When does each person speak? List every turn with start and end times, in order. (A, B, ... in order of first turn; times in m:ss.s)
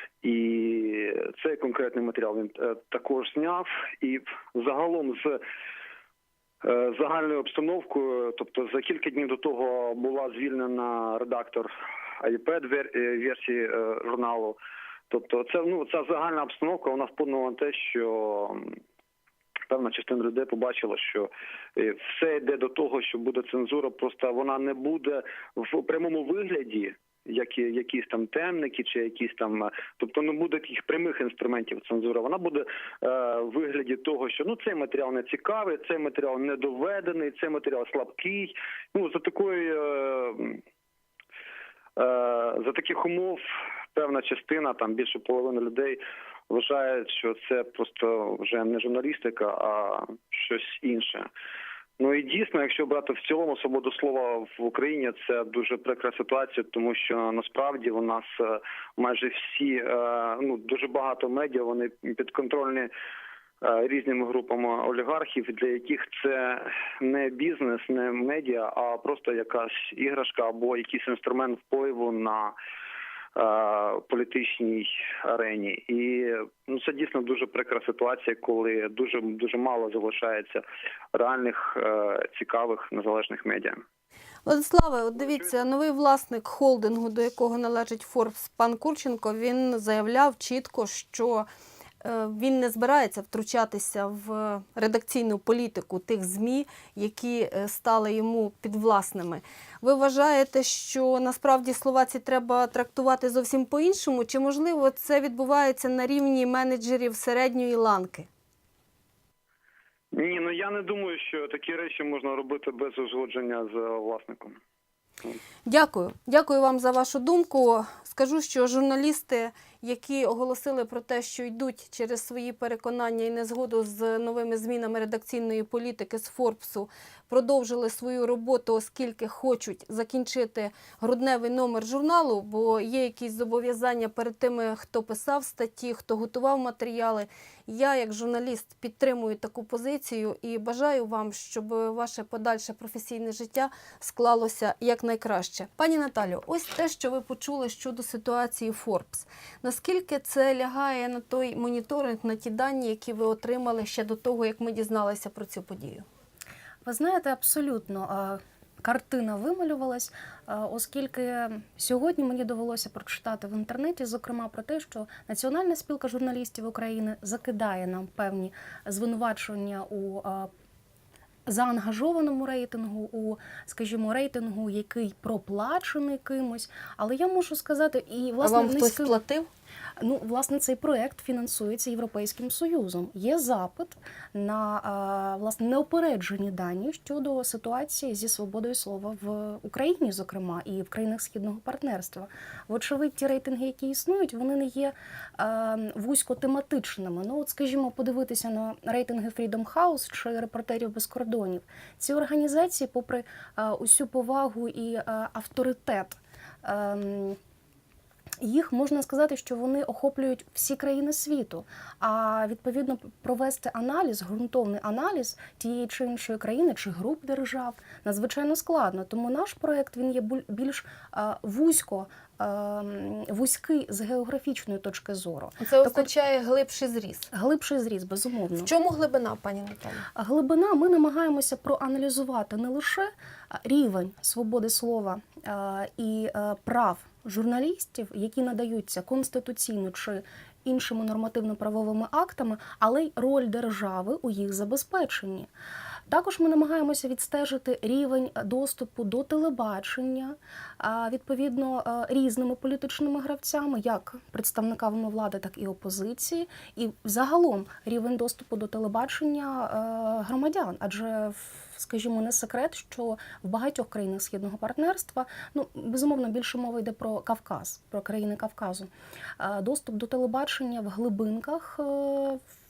0:00.2-0:05.4 A
0:06.6-0:11.7 A
0:12.2-0:14.6 A
0:15.1-0:18.6 A
0:19.7-0:40.6 A
0:42.0-0:43.4 A
0:43.9-0:51.3 A
0:52.0-1:02.9 A
1:03.6-1:12.6 A
1:13.4-1:20.6 A
1:21.1-1:23.8 A
1:24.5-1:31.5 B
1:25.2-1:25.5 A
1:32.0-1:48.3 B
1:50.1-1:54.6 A
1:55.7-2:36.0 B
2:36.8-2:50.5 C
2:51.5-2:59.1 C
2:58.4-2:59.5 B
3:00.0-3:27.4 C
3:28.4-3:46.1 C
3:45.6-3:47.3 B
3:47.3-3:48.7 C
3:48.6-3:50.0 B
3:50.2-4:05.5 C
4:06.1-4:32.4 C